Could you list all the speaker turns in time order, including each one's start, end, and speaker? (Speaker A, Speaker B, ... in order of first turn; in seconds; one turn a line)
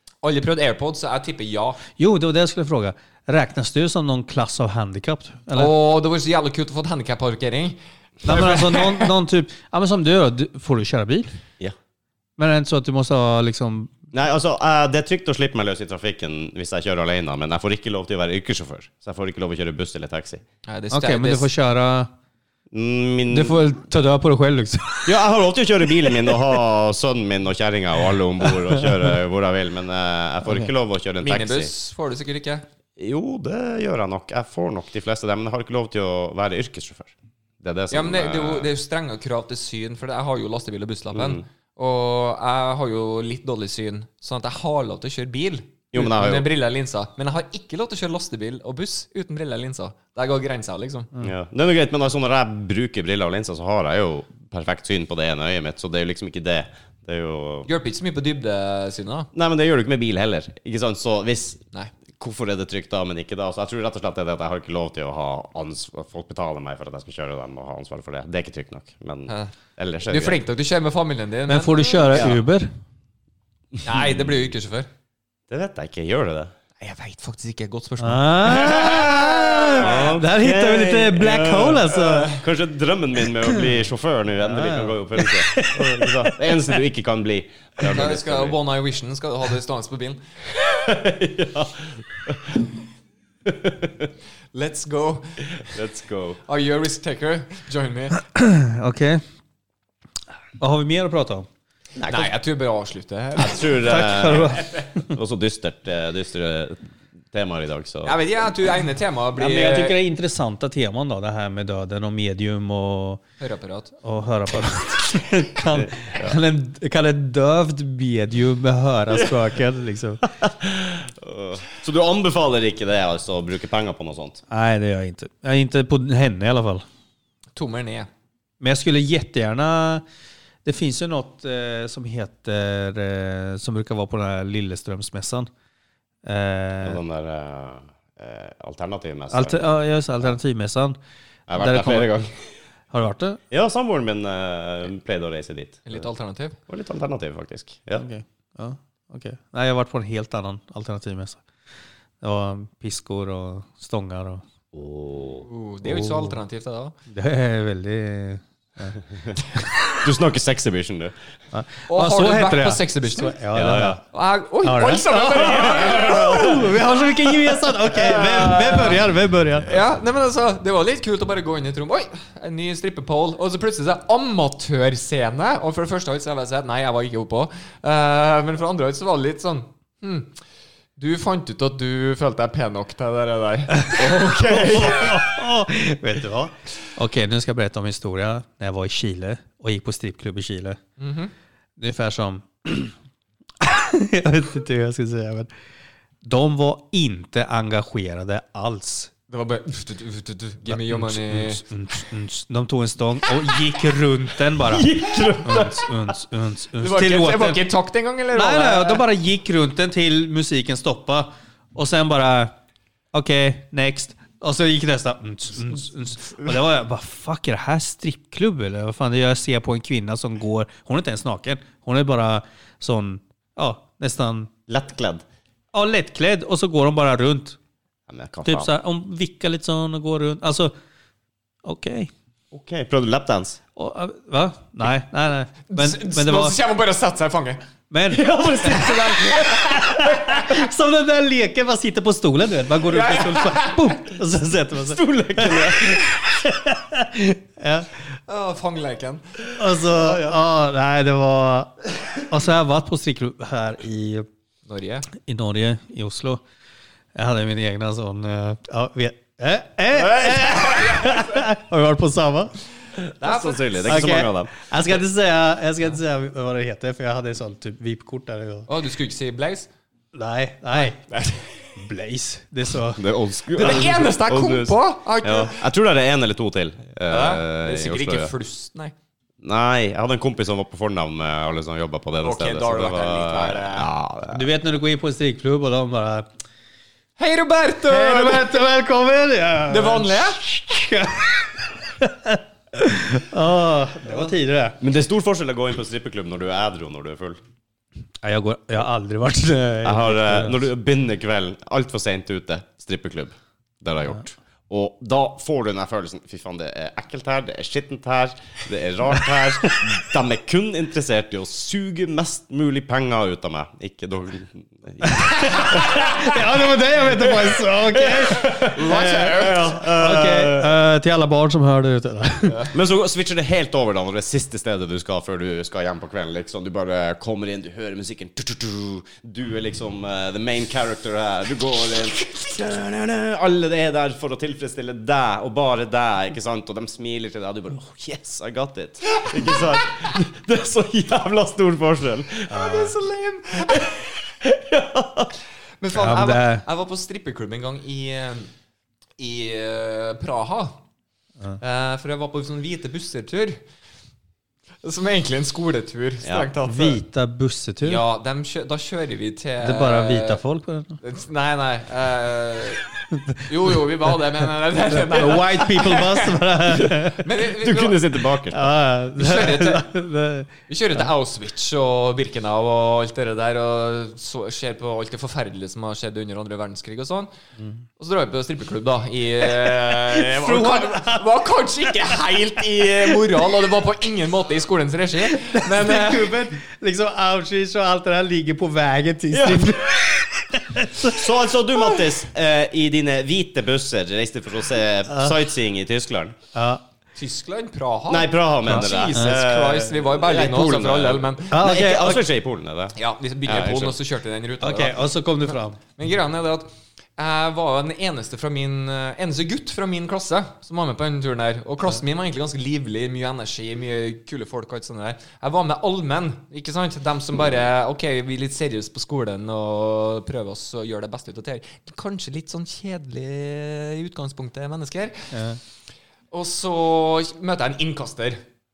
Speaker A: 0.2-1.8
Speaker B: 2.0-5.8
Speaker A: 5.5-9.1
Speaker B: 8.2-11.3
Speaker B: 12.4-13.9
Speaker C: 14.1-20.4
Speaker A: 20.7-21.5
Speaker B: 20.9-22.1
Speaker C: 22.7-23.6
Speaker B: 23.3-25.1
Speaker C: 25.1-31.7
Speaker A: 31.2-32.6
Speaker C: 33.0-38.7
Speaker A: 37.9-51.1
Speaker C: 41.1-41.4
Speaker C: 45.9-46.5
Speaker C: 51.2-57.7
Speaker A: 57.7-59.3
Speaker C: 59.3-61.6
Speaker C: 62.2-70.4
Speaker A: 69.3-69.5
Speaker A: 70.1-72.3
Speaker B: 71.5-72.7
Speaker C: 72.1-72.4
Speaker C: 73.8-74.1
Speaker A: 73.8-74.9
Speaker C: 75.5-76.5
Speaker A: 76.8-80.1
Speaker B: 78.0-82.3
Speaker C: 79.8-88.6
Speaker A: 82.1-82.4
Speaker B: 84.4-86.3
Speaker A: 87.9-90.2
Speaker C: 90.6-92.7
Speaker C: 93.5-94.1
Speaker A: 94.5-95.4
Speaker C: 95.6-96.4
Speaker A: 96.5-98.2
Speaker B: 98.3-99.2
Speaker B: 100.6-101.5
Speaker C: 102.0-102.3
Speaker A: 102.1-104.0
Speaker C: 103.4-108.2
Speaker B: 103.8-105.0
Speaker A: 108.0-110.0
Speaker B: 109.4-113.2
Speaker A: 113.4-113.9
Speaker B: 114.0-120.2
Speaker C: 115.8-116.4
Speaker C: 120.4-124.4
Speaker B: 124.5-126.8
Speaker A: 127.6-128.1
Speaker B: 128.6-130.0
Speaker B: 130.7-135.5
Speaker B: 136.2-137.0
Speaker C: 136.8-139.7
Speaker B: 139.3-141.0
Speaker C: 141.5-142.5
Speaker B: 141.6-142.1
Speaker B: 142.9-143.4
Speaker C: 143.5-146.0
Speaker A: 145.9-146.6
Speaker C: 146.7-148.1
Speaker B: 148.0-151.4
Speaker B: 152.2-154.4
Speaker C: 154.7-155.5
Speaker A: 155.4-157.0
Speaker B: 155.8-156.4
Speaker B: 157.1-159.0
Speaker B: 159.6-159.8
Speaker C: 159.9-161.2
Speaker B: 161.5-164.0
Speaker A: 161.9-163.4
Speaker C: 163.5-164.0
Speaker A: 164.1-169.0
Speaker B: 164.6-169.7
Speaker C: 166.0-166.4
Speaker A: 169.7-180.4
Speaker A: 181.0-185.2
Speaker B: 183.8-190.8
Speaker A: 191.0-191.3
Speaker B: 191.8-192.9
Speaker B: 193.6-195.5
Speaker B: 196.2-199.1
Speaker A: 199.3-201.6
Speaker B: 200.7-207.6
Speaker C: 204.6-205.9
Speaker A: 206.8-209.0
Speaker B: 208.3-212.5
Speaker B: 213.1-224.5
Speaker C: 224.7-225.2
Speaker B: 225.7-227.6
Speaker C: 228.1-228.7
Speaker B: 228.5-230.7
Speaker B: 231.6-232.1
Speaker C: 232.5-233.6
Speaker B: 233.8-236.6
Speaker A: 235.7-237.6
Speaker B: 237.9-248.0
Speaker C: 238.1-239.7
Speaker A: 239.0-240.5
Speaker A: 242.9-244.0
Speaker C: 244.8-246.1
Speaker A: 248.3-249.4
Speaker B: 249.6-254.3
Speaker A: 254.7-255.1
Speaker B: 255.1-256.4
Speaker B: 257.1-262.6
Speaker A: 260.1-261.4
Speaker C: 263.1-264.7
Speaker A: 263.2-264.1
Speaker B: 263.9-268.7
Speaker A: 268.7-269.7
Speaker B: 270.1-271.0
Speaker A: 271.1-271.6
Speaker B: 271.8-273.1
Speaker C: 273.0-278.3
Speaker A: 273.6-275.6
Speaker A: 277.1-278.9
Speaker C: 279.4-284.5
Speaker A: 282.2-283.9
Speaker B: 284.3-286.3
Speaker A: 287.2-288.6
Speaker B: 287.9-294.8
Speaker A: 289.7-290.4
Speaker C: 294.8-297.4
Speaker B: 298.2-300.7
Speaker C: 299.8-316.1
Speaker B: 315.1-322.6
Speaker A: 315.4-316.3
Speaker C: 318.0-320.7
Speaker A: 318.0-319.8
Speaker C: 322.7-342.8
Speaker A: 342.5-343.9
Speaker B: 342.5-342.9
Speaker C: 343.7-345.3
Speaker A: 345.8-348.5
Speaker B: 345.9-346.6
Speaker A: 349.2-350.8
Speaker A: 351.6-353.6
Speaker A: 354.8-357.0
Speaker C: 356.2-356.5
Speaker B: 356.7-358.0
Speaker A: 357.8-360.4
Speaker B: 359.6-361.0
Speaker A: 361.0-362.9
Speaker B: 363.1-363.4
Speaker A: 363.5-366.4
Speaker B: 364.9-367.3
Speaker A: 367.1-368.0
Speaker C: 367.5-368.7
Speaker B: 368.5-370.5
Speaker A: 369.2-369.9
Speaker A: 370.7-377.3
Speaker A: 378.0-386.4
Speaker B: 379.9-381.3
Speaker B: 381.9-382.2
Speaker B: 385.3-391.3
Speaker C: 391.0-396.4
Speaker B: 396.5-396.8
Speaker A: 397.2-401.6
Speaker C: 398.1-403.9
Speaker B: 398.7-399.4
Speaker B: 401.5-402.2
Speaker A: 402.9-405.0
Speaker B: 404.6-405.8
Speaker A: 406.0-425.3
Speaker B: 425.3-425.6
Speaker A: 426.3-428.4